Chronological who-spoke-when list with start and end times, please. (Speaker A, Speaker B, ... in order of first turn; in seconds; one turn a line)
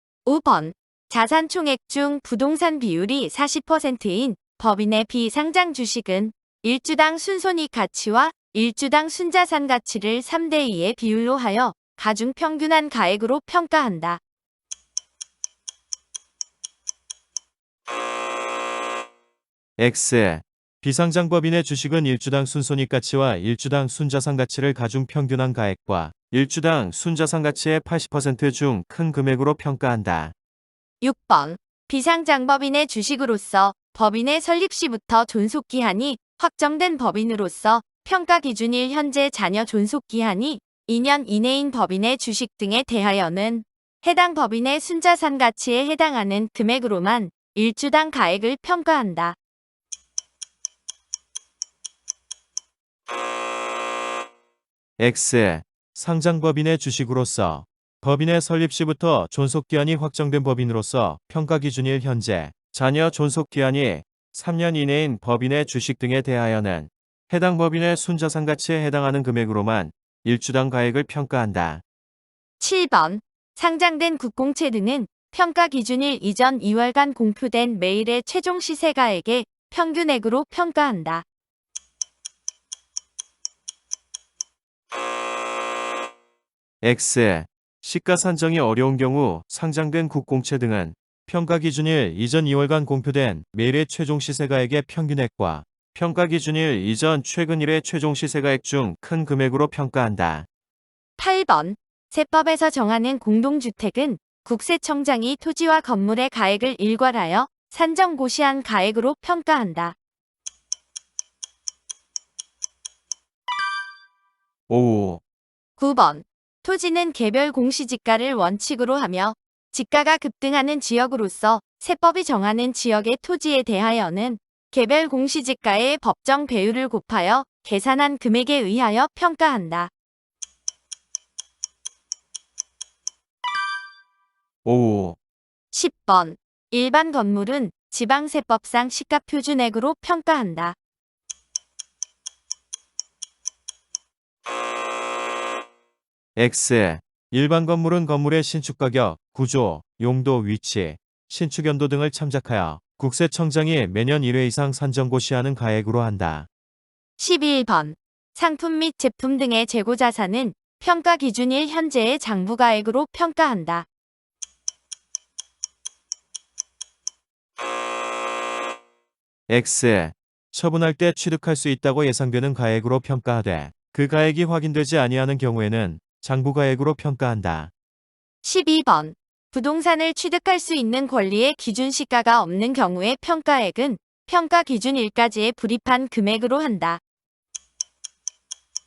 Speaker A: 0.2-14.2
Speaker B: 19.8-30.3
Speaker A: 31.0-49.4
Speaker B: 55.0-71.8
Speaker A: 72.6-81.2
Speaker B: 86.8-100.5
Speaker A: 101.2-110.0
Speaker B: 114.7-115.2
Speaker A: 115.8-129.9
Speaker B: 134.6-135.2
Speaker A: 135.7-140.8
Speaker B: 146.3-156.5
Speaker A: 157.2-163.9
Speaker B: 169.5-177.7
Speaker A: 178.4-187.0